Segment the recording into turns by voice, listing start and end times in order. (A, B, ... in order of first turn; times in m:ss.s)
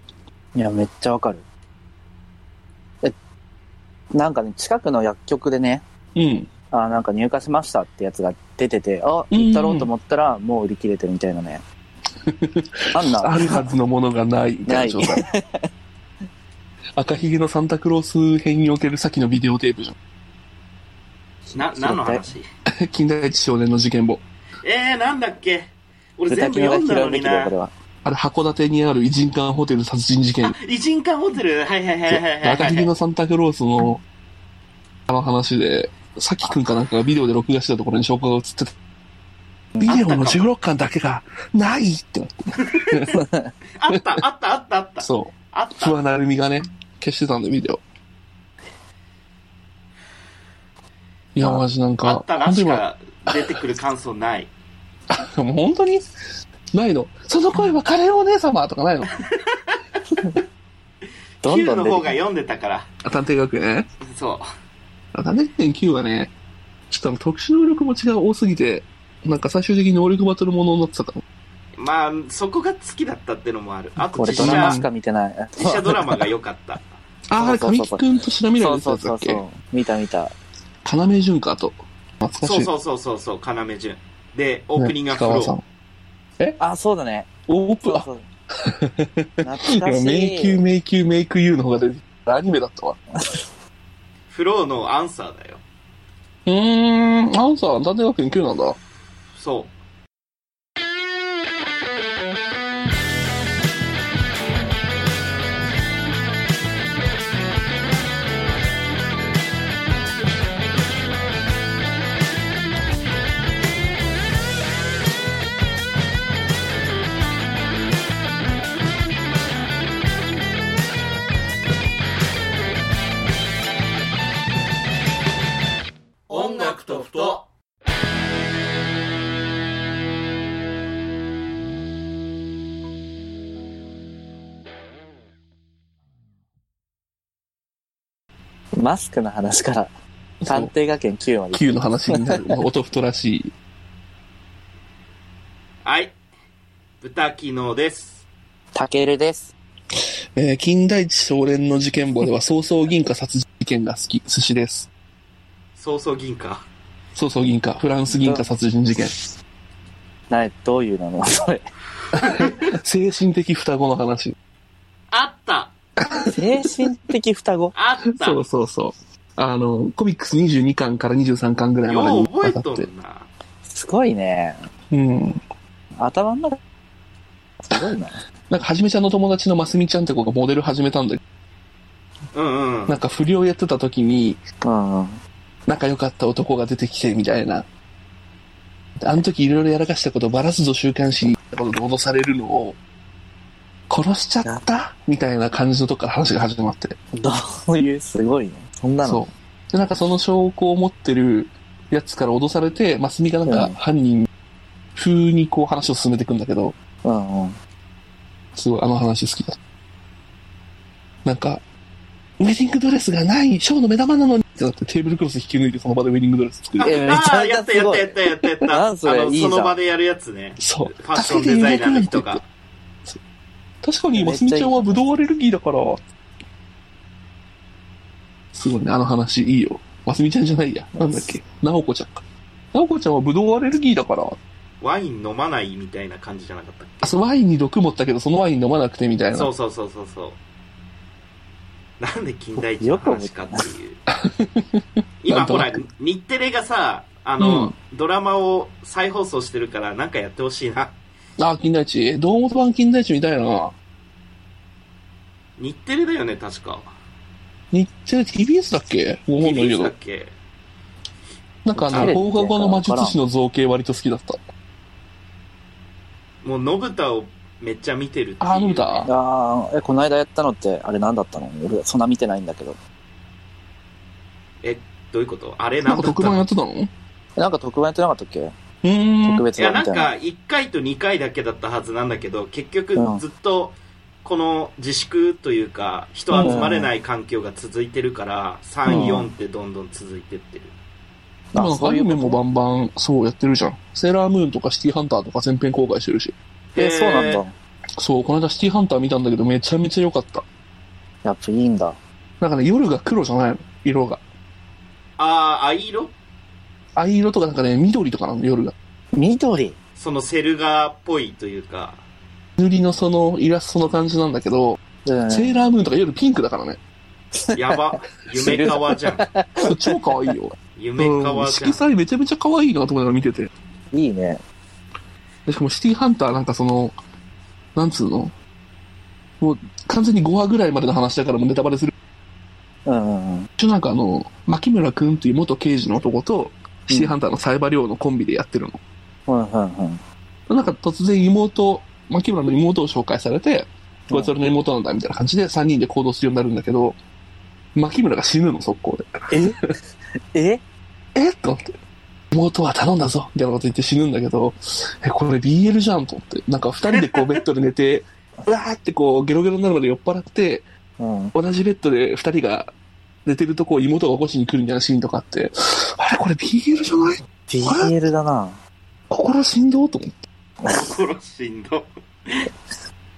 0:00.6-0:01.4 A
0:04.1-0:05.8 A
0:06.2-0:06.5 B
0:06.7-0:11.6 A
0:09.3-0:09.9 B
0:12.2-0:15.2 B
0:12.9-0:13.7 A
0:14.7-0:15.6 A
0:17.0-0:20.0 B
0:21.5-0:22.3 A
0:21.5-0:22.5 C
0:22.8-0:24.2 B
0:24.6-0:27.5 C
0:26.3-0:27.7 A
0:28.0-0:30.6 B
0:30.4-0:32.9 C
0:32.1-0:34.0 B
0:35.1-0:38.7 B
0:39.8-0:43.2 B
0:39.8-0:40.4 C
0:42.6-0:43.0 C
0:43.1-0:43.5 A
0:43.8-0:46.0 C
0:43.9-0:44.2 B
0:45.0-0:47.8 B
0:51.4-0:53.4 B
0:52.0-0:54.5 C
0:55.1-0:56.0 B
0:56.7-0:59.1 B
0:59.1-1:00.0 C
1:01.4-1:02.2 A
1:01.4-1:02.9 C
1:03.0-1:03.9 B
1:04.0-1:04.5 C
1:05.1-1:06.3 B
1:06.9-1:11.2 B
1:11.8-1:14.8 C
1:14.1-1:14.9 B
1:14.2-1:15.8 A
1:15.6-1:16.8 C
1:17.3-1:19.4 B
1:17.4-1:18.0 A
1:18.6-1:20.3 A
1:20.8-1:22.7 B
1:22.4-1:25.6 C
1:24.8-1:25.6 B
1:26.6-1:27.3 A
1:27.5-1:28.1 B
1:27.8-1:28.2 A
1:28.6-1:33.0 B
1:29.4-1:30.6 A
1:33.2-1:33.5 A
1:34.3-1:35.6 C
1:36.5-1:38.8 B
1:39.4-1:39.7 C
2:06.3-2:07.4 C
2:18.8-2:19.9 A
2:20.4-2:20.7 B
2:20.5-2:22.4 A
2:21.5-2:23.5 B
2:25.8-2:26.2 C
2:27.0-2:28.2 C
2:28.8-2:29.5 A
2:30.4-2:34.9 B
2:35.8-2:36.6 C
2:37.2-2:39.3 B
2:38.1-2:38.5 A
2:40.3-2:41.6 A
2:42.2-2:44.4 B
2:42.2-2:42.7 C
2:45.1-2:45.7 C
2:46.0-2:46.9 B
2:46.3-2:47.7 A
2:47.8-2:48.4 C
2:48.2-2:52.9 B
2:51.9-2:53.3 C
2:53.7-2:54.6 A
2:54.9-2:55.4 B
2:56.0-2:56.6 A
2:57.6-2:58.2 A
2:58.5-3:01.2 B
3:02.3-3:03.0 C
3:02.9-3:04.4 B
3:04.6-3:05.2 A
3:05.7-3:07.6 B
3:09.0-3:12.8 B
3:13.9-3:17.0 B
3:17.2-3:19.2 A
3:19.0-3:24.3 B
3:23.5-3:23.8 A
3:25.0-3:26.8 B
3:27.0-3:27.6 A
3:28.6-3:29.6 B
3:31.2-3:31.6 B
3:32.4-3:37.2 B
3:36.8-3:42.4 C
3:36.8-3:39.8 A
3:40.6-3:42.4 B
3:43.8-3:46.0 B
3:44.1-3:45.0 A
3:48.5-3:52.2 B
3:52.7-3:54.4 B
3:54.8-3:57.2 C
3:57.0-3:59.5 B
3:59.3-4:00.4 C
4:02.0-4:04.0 C
4:02.8-4:03.7 A
4:04.1-4:05.8 B
4:05.2-4:11.0 C
4:07.4-4:07.7 B
4:11.4-4:13.7 B
4:15.6-4:16.9 C
4:17.7-4:19.9 B
4:19.4-4:20.3 C
4:21.7-4:24.4 B
4:21.8-4:23.2 A
4:26.4-4:29.1 C
4:28.4-4:29.1 B
4:29.1-4:32.8 A
4:34.6-4:36.4 C
4:35.8-4:36.9 B
4:37.4-4:38.5 A
4:38.8-4:39.5 B
4:39.2-4:40.1 A
4:39.6-4:50.7 C
4:43.0-4:43.2 A
4:46.3-4:46.7 B
4:46.4-4:46.9 A
4:48.9-4:49.3 A
4:48.9-4:49.2 B
4:51.5-4:52.4 A
4:51.6-4:56.4 B
4:56.7-4:57.4 C
4:56.8-4:57.5 A
4:58.0-5:00.4 B
5:01.2-5:02.0 A
5:02.4-5:04.2 B
5:05.2-5:06.1 C
5:07.0-5:08.8 B
5:09.2-5:09.8 A
5:10.0-5:12.0 C
5:12.6-5:14.8 B
5:15.1-5:15.7 A
5:15.3-5:16.8 B
5:17.4-5:17.8 A
5:17.5-5:19.3 C
5:18.4-5:20.4 A
5:19.6-5:23.5 B
5:20.8-5:21.8 C
5:23.9-5:24.4 A
5:25.5-5:27.0 B
5:27.8-5:28.3 B
5:29.4-5:31.9 B
5:32.9-5:33.5 A
5:33.6-5:38.8 B
5:36.9-5:37.2 A
5:39.3-5:40.0 A
5:40.5-5:47.0 B
5:44.1-5:44.5 A
5:47.8-5:49.7 B
5:49.3-5:49.8 A
5:50.3-5:50.6 A
5:51.2-5:51.7 B
5:52.3-6:00.7 B
5:56.9-5:57.4 C
6:01.0-6:01.3 A
6:01.3-6:02.7 B
6:03.2-6:07.9 B
6:07.5-6:08.6 A
6:09.1-6:10.2 B
6:10.7-6:12.5 C